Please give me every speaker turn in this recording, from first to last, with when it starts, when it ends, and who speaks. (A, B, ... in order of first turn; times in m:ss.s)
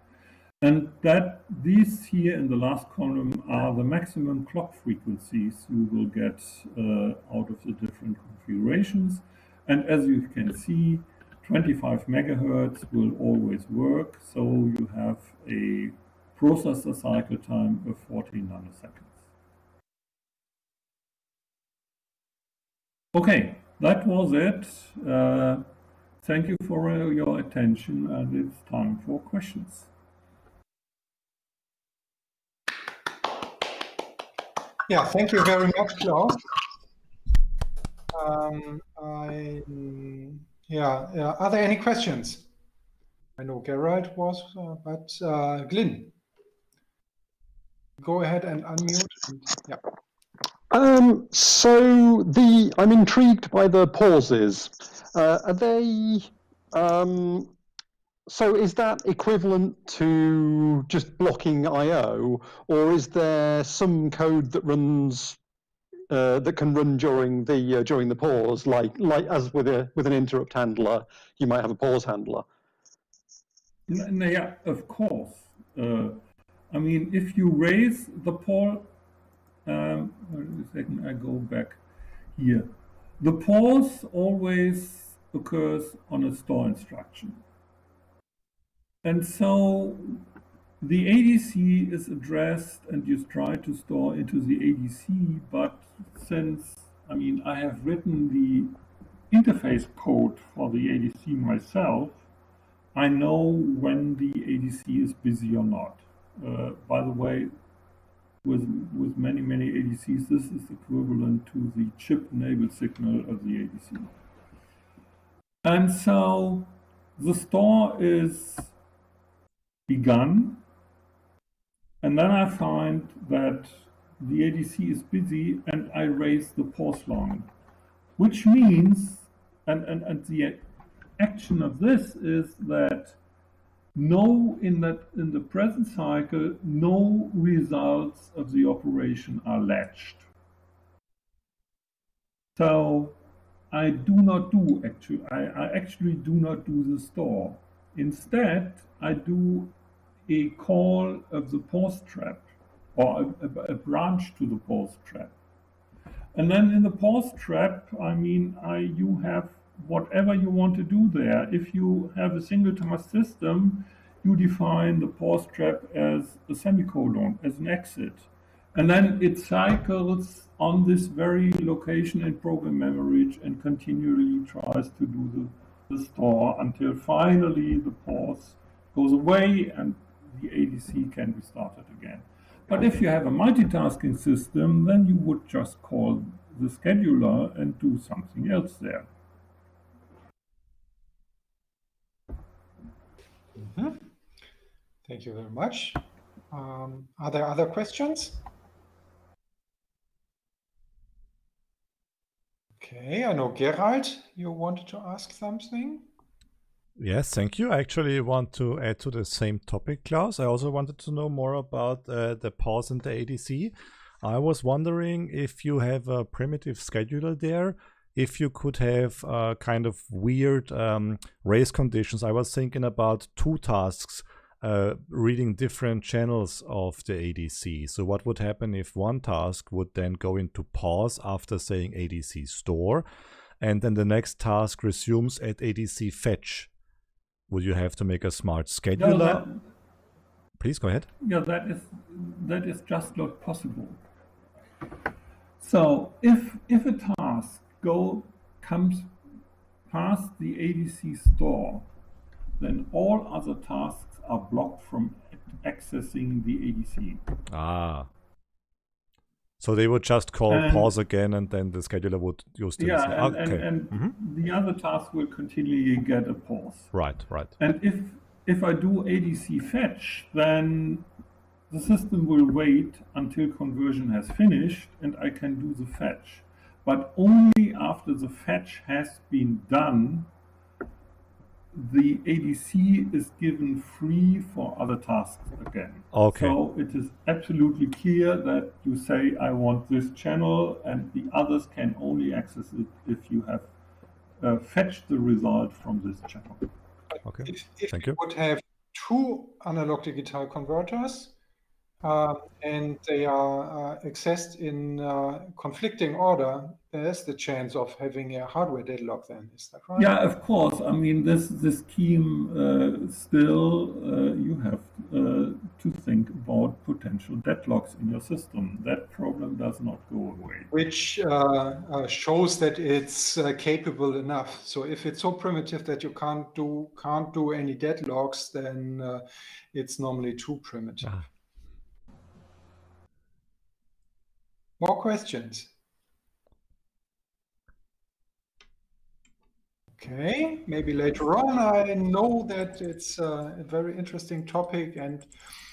0:00.6-0:19.2 A
0:23.1-0:25.7 A
0:26.2-0:29.9 A
0:34.9-0:36.4 B
0:38.1-0:42.5 B
0:43.4-0:46.2 B
0:48.0-0:49.8 B
0:50.7-0:57.5 C
0:58.3-1:05.4 C
1:06.1-1:12.5 C
1:13.9-1:16.2 A
1:16.7-1:18.9 A
1:19.7-1:21.8 A
1:22.4-1:22.7 A
1:23.2-1:27.4 A
1:29.0-1:30.2 A
1:30.8-1:38.7 A
1:39.3-1:42.3 A
1:42.9-1:47.5 A
1:48.4-1:54.1 A
1:55.6-1:58.7 A
1:59.9-2:00.6 A
2:02.0-2:07.5 A
2:08.2-2:10.6 A
2:11.2-2:13.2 A
2:14.0-2:20.2 A
2:22.6-2:23.2 A
2:23.7-2:29.7 A
2:30.3-2:35.3 A
2:36.4-3:09.1 A
3:13.6-3:14.1 B
3:15.1-3:18.4 B
3:22.8-3:26.0 B
3:27.0-3:53.0 D
3:53.6-3:56.7 D
3:57.5-3:59.5 D
3:59.0-3:59.6 A
4:00.6-4:01.1 D
4:01.2-4:04.0 A
4:05.6-4:09.1 A
4:09.9-4:11.9 A
4:12.6-4:17.2 A
4:17.5-4:18.1 D
4:19.6-4:24.1 D
4:20.5-4:20.9 A
4:22.8-4:26.9 A
4:26.9-4:27.5 D
4:27.6-4:31.1 A
4:31.7-4:40.3 A
4:41.7-4:53.7 A
4:46.1-4:46.6 D
4:54.4-4:56.7 A
4:57.2-4:58.2 D
4:57.4-5:01.3 B
5:02.0-5:10.1 B
5:10.0-5:20.7 A
5:20.7-5:31.2 B
5:34.8-5:35.7 B
5:40.0-5:45.3 B